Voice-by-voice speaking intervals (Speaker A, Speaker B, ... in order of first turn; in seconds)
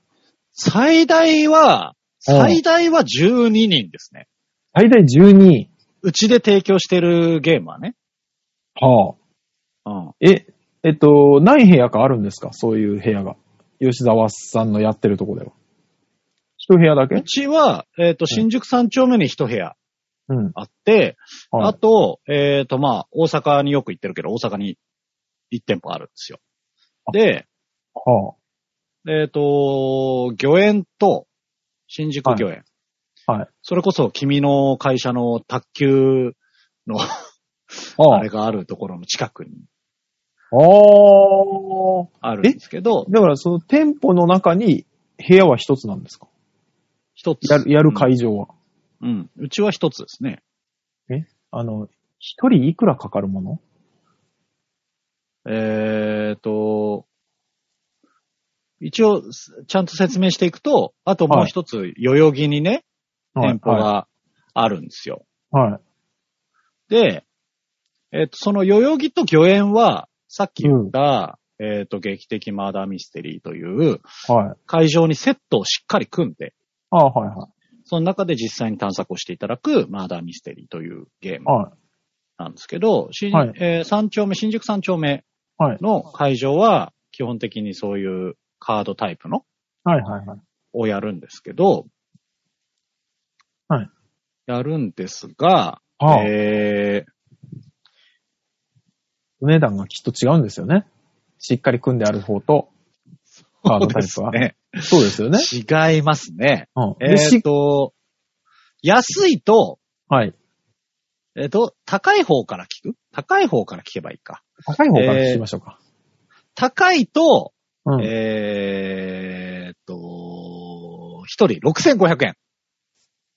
Speaker A: 0.6-4.2, 6.0-7.9, 9.9-10.1, 17.1-19.8, 20.6-24.8, 25.5-26.4, 27.1-27.4, 29.1-31.3, 31.9-32.6, 33.6-37.1, 37.9-39.6, 42.2-43.1, 47.2-48.1, 49.0-50.4, 55.5-57.0, 58.8-62.8, 63.4-65.2, 66.9-67.2, 68.1-74.1, 74.7-76.5, 77.9-81.5, 82.4-85.2, 85.8-89.4, 90.7-91.9, 94.5-97.1, 103.6-107.9, 108.8-109.8, 111.4-114.4, 114.9-115.4, 116.6-122.4
Speaker B: 2.3-2.6, 4.8-5.7, 8.8-9.2, 10.2-15.5, 16.6-17.2, 20.3-20.6, 28.0-28.3, 38.0-38.3, 40.5-46.3, 47.4-48.5, 51.1-53.6, 63.4-63.9, 65.5-65.8, 70.6-70.9, 74.3-74.6, 76.9-77.5, 81.5-81.7, 89.9-90.4, 96.0-96.3, 99.4-100.9, 101.4-102.7, 103.7-105.5, 106.8-107.4, 110.1-110.3, 114.7-115.8, 117.9-118.1